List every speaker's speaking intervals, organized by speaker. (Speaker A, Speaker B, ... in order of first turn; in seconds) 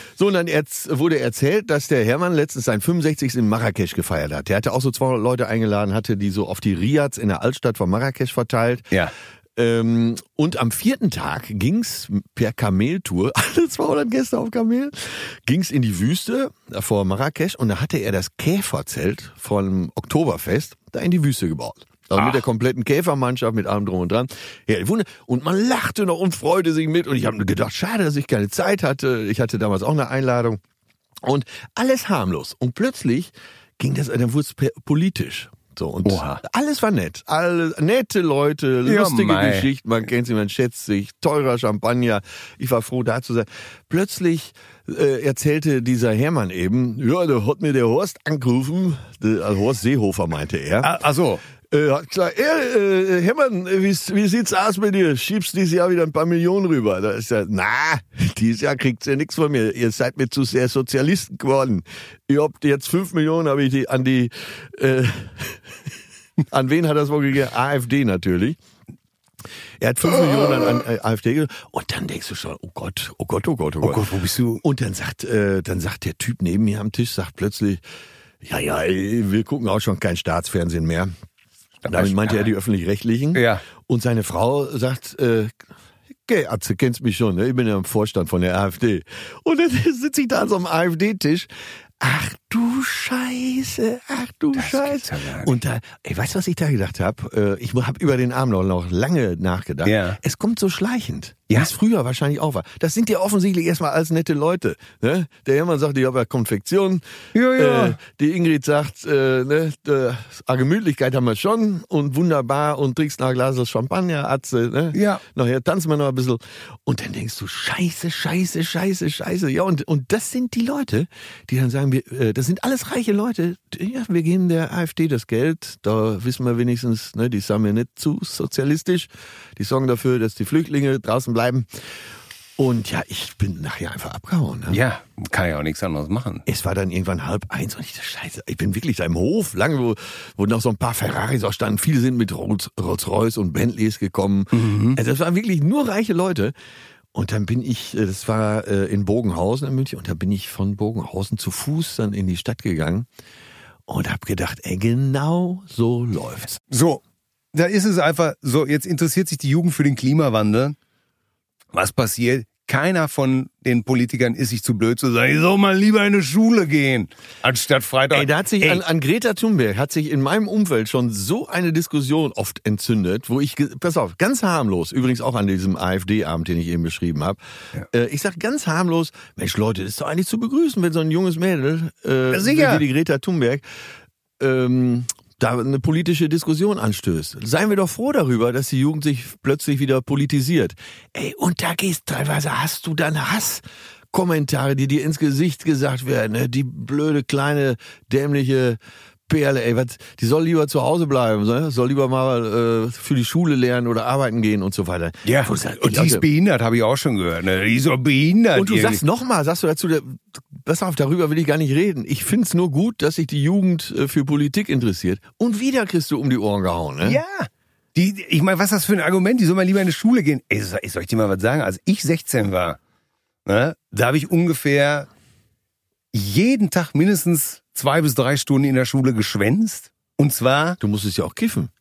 Speaker A: 0.1-8.9, 9.6-30.6, 31.2-50.9, 51.7-65.8, 66.5-68.6, 69.8-74.1, 74.6-77.8, 78.4-81.1, 81.9-85.6, 86.3-91.5, 92.0-107.0, 107.6-131.7, 132.6-134.8, 136.5-146.5, 147.1-153.1, 153.9-156.6, 168.1-177.4, 177.9-183.6, 184.4-206.2, 208.6-217.2, 230.8-231.7
Speaker B: 22.2-22.4, 36.0-36.4, 38.9-39.7, 50.8-51.4, 73.8-74.6, 81.8-82.5, 83.3-83.6, 94.6-95.6, 99.8-100.2, 107.3-108.0, 114.9-115.2, 134.7-136.5, 144.5-145.0, 156.7-157.0, 157.5-160.8, 161.7-168.8, 182.3-182.8, 205.2-209.0, 217.0-222.8, 223.4-225.1, 226.1-230.8